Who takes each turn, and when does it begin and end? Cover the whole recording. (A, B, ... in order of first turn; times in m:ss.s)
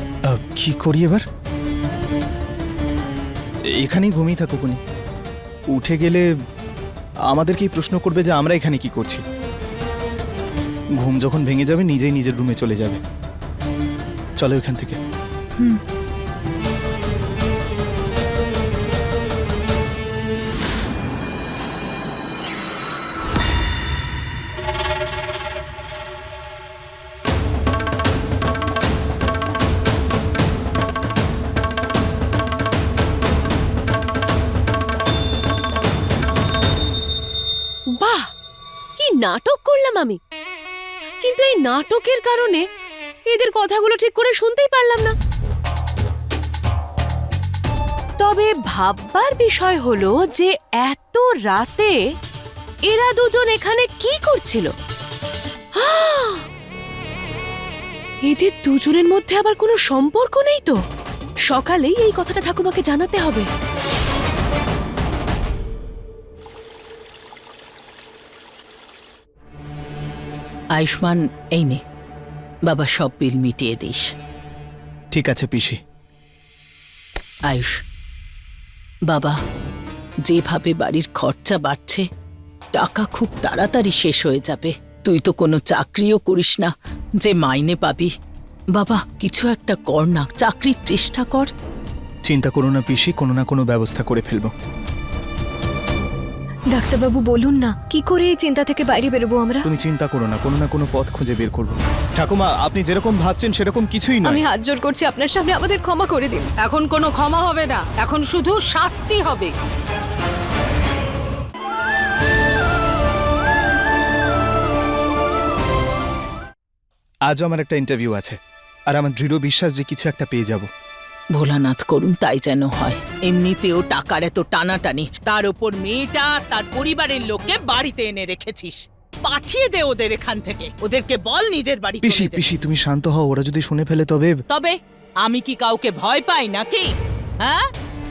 0:00.3-0:01.2 A
0:03.8-0:04.8 A
0:05.7-0:06.2 A
0:07.3-0:09.2 A
0:11.0-0:13.0 A
0:14.4-0:15.0 A
0:38.0-0:38.2 B
0:39.0-0:40.2 B
0:41.2-0:42.6 B
0:43.3-0:45.1 B
0:48.2-0:51.9 B
0:52.9-0:54.7 B
0:55.8-0:56.4 B
0:58.2-1:00.8 B
1:01.5-1:03.4 B
1:10.7-1:11.8 C
1:12.7-1:14.1 C
1:15.1-1:15.8 A
1:17.5-1:17.8 C
1:19.1-1:19.4 C
1:20.2-1:22.0 C
1:22.7-1:28.1 C
1:28.7-1:31.5 C
1:32.2-1:34.5 A
1:36.7-1:39.7 D
1:39.6-1:44.4 A
1:44.2-1:46.5 D
1:46.6-1:49.5 E
1:57.3-1:58.4 A
1:58.9-2:00.7 A
2:01.3-2:12.5 C
2:12.0-2:14.4 A
2:14.5-2:16.9 C
2:17.4-2:17.7 C